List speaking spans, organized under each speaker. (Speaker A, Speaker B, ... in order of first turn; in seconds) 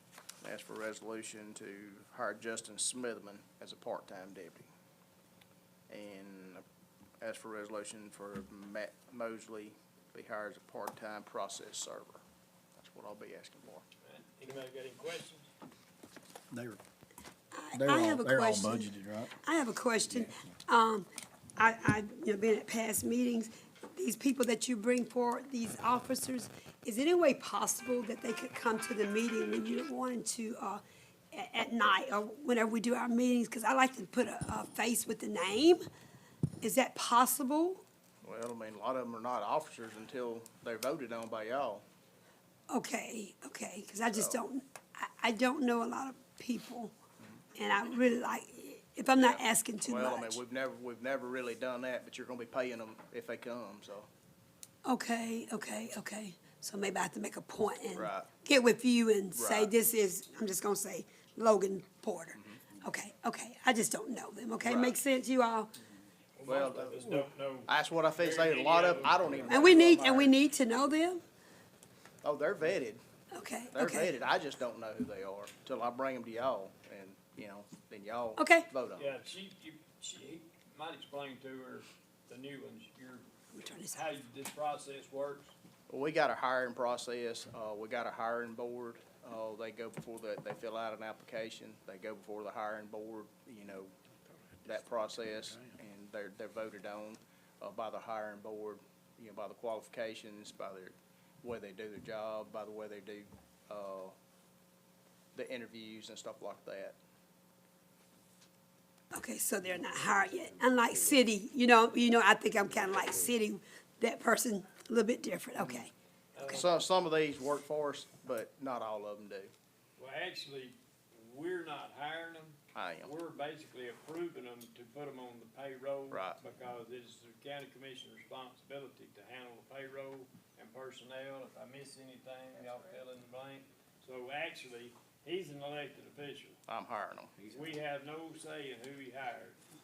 Speaker A: 0.4-4.7, 5.9-6.6, 7.2-12.2, 12.8-13.8, 38.2-41.8, 44.1-44.4, 49.1-54.1, 57.9-58.3, 59.3-59.7, 62.3-62.6, 64.6-65.0, 66.4-70.4, 72.2-73.0, 73.7-79.1, 85.9-93.9, 94.6-104.1, 105.3-107.0, 116.5-119.5, 122.7-123.1, 126.1-126.4, 136.7-137.3
Speaker B: 14.0-15.5, 66.3-69.9, 79.0-83.2, 83.9-85.5, 116.3-116.7, 120.0-136.6, 137.5-139.6
Speaker C: 16.5-16.8, 17.7-19.3, 20.1-20.5
Speaker D: 17.5-35.8, 36.6-37.8, 42.7-46.9, 47.5-50.4, 54.8-65.7, 69.5-71.2, 73.3-74.1, 78.3-78.7, 83.5-84.0, 109.1-115.9